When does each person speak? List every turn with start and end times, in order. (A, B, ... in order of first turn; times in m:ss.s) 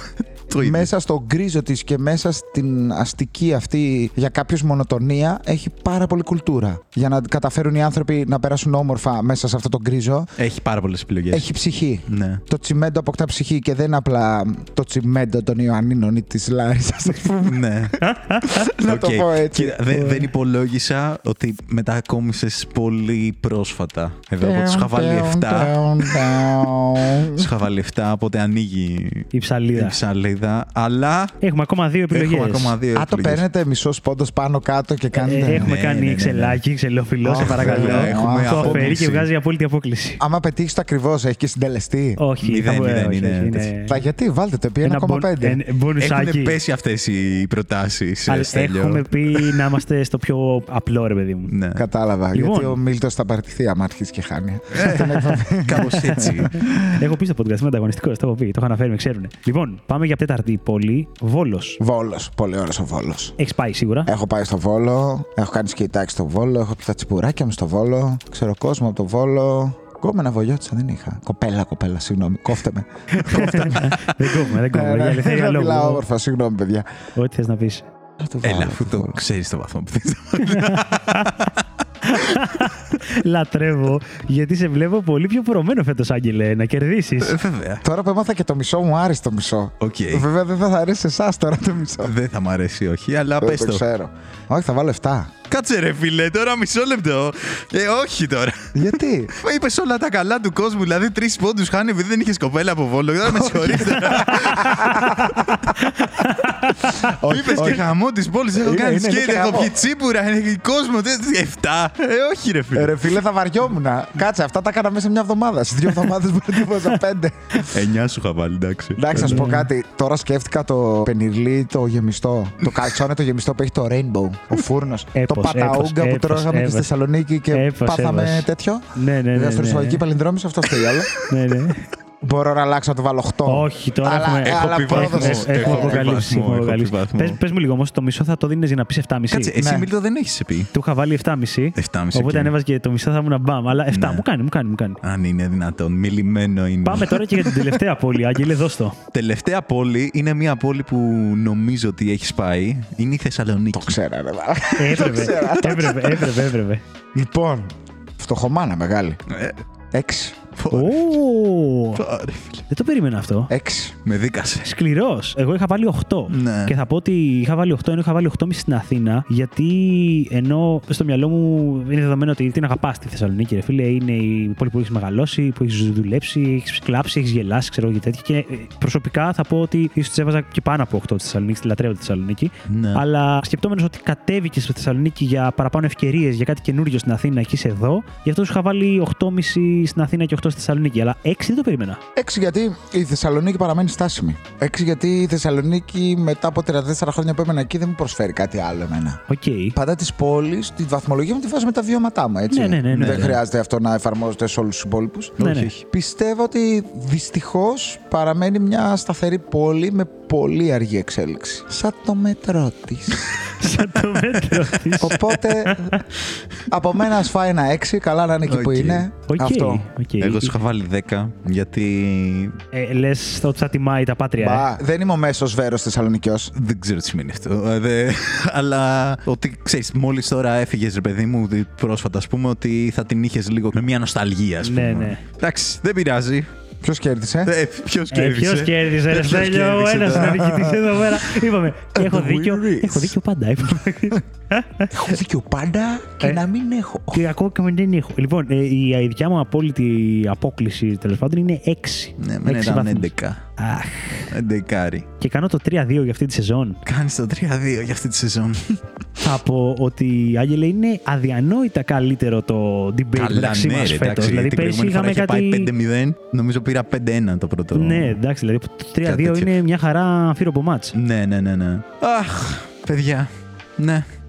0:00.5-0:00.9 A
0:00.5-0:10.3 B
0:10.4-0:11.4 A
0:11.3-0:17.6 B
0:12.1-0:12.4 A
0:17.4-0:18.0 A
0:18.0-0:18.7 C
0:18.5-0:20.0 B
0:18.8-0:31.4 A
0:19.9-0:20.2 C
0:24.4-0:27.5 B
0:29.3-0:30.0 C
0:31.4-0:32.8 C
0:32.1-0:33.4 A
0:32.9-0:35.7 B
0:35.1-0:40.2 C
0:35.5-0:36.6 A
0:37.2-0:38.9 B
0:37.4-0:39.3 A
0:40.2-0:42.2 B
0:42.2-0:44.0 C
0:42.4-0:43.7 A
0:43.8-0:45.6 B
0:44.8-0:46.6 C
0:46.0-0:49.7 A
0:48.3-0:51.5 C
0:51.5-0:51.8 A
0:51.7-0:57.0 B
0:52.3-0:52.8 C
0:54.7-0:56.5 A
0:55.7-1:01.8 C
1:01.8-1:03.3 B
1:03.4-1:04.1 C
1:04.0-1:16.9 B
1:13.1-1:16.0 C
1:17.1-1:17.9 C
1:18.2-1:19.2 B
1:18.4-1:22.7 A
1:20.4-1:21.5 C
1:22.0-1:27.4 C
1:27.2-1:27.8 A
1:27.8-1:32.1 B
1:29.8-1:30.2 A
1:32.0-1:33.8 A
1:33.4-1:35.3 B
1:35.5-1:46.1 A
1:38.7-1:39.3 B
1:43.5-1:45.5 B
1:43.6-1:47.1 C
1:47.0-1:47.9 B
1:47.2-1:53.1 A
1:48.5-1:49.8 B
1:52.7-1:57.7 B
1:57.7-1:59.6 A
1:59.0-2:11.1 B
1:59.1-1:59.7 C
2:05.1-2:06.9 C
2:07.5-2:10.0 C
2:10.8-2:11.2 A
2:11.2-2:11.9 C
2:12.2-2:16.2 B
2:13.4-2:19.6 C
2:14.4-2:17.4 A
2:19.3-2:20.7 A
2:19.6-2:19.9 B
2:20.7-2:25.0 C
2:21.8-2:22.5 A
2:23.9-2:24.2 A
2:25.0-2:27.8 A
2:26.8-2:29.0 C
2:29.1-2:34.0 A
2:33.7-2:36.4 B
2:34.8-2:36.8 C
2:37.1-2:39.2 B
2:39.3-2:39.6 A
2:39.9-2:40.4 B
2:40.6-2:41.2 A
2:40.7-2:42.0 C
2:41.9-2:42.7 A
2:42.7-2:43.5 C
2:43.5-2:44.0 B
2:44.0-2:44.7 A
2:44.6-3:12.0 C
2:46.3-2:46.7 A
3:02.7-3:03.0 A
3:12.1-3:19.2 B
3:19.3-3:19.8 C
3:19.7-3:33.3 B
3:22.5-3:23.4 C
3:22.9-3:23.4 A
3:25.4-3:25.8 A
3:25.4-3:25.7 C
3:33.4-3:36.1 C
3:35.0-3:36.0 B
3:36.7-3:39.9 B
3:38.5-3:39.1 A
3:39.3-3:40.6 C
3:40.2-3:42.6 A
3:42.7-3:44.6 C
3:44.4-3:46.5 B
3:46.5-3:56.5 A
3:54.6-3:55.2 C
3:56.8-3:57.5 B
3:57.4-4:01.2 A
3:58.1-4:05.0 C
4:01.9-4:03.1 A
4:04.9-4:07.2 B
4:07.1-4:14.3 C
4:12.2-4:13.5 A
4:14.3-4:15.1 A
4:15.2-4:16.8 C
4:16.8-4:18.8 A
4:19.2-4:25.7 C
4:23.1-4:28.2 A
4:27.7-4:30.9 C
4:29.0-4:29.5 A
4:30.9-4:34.0 A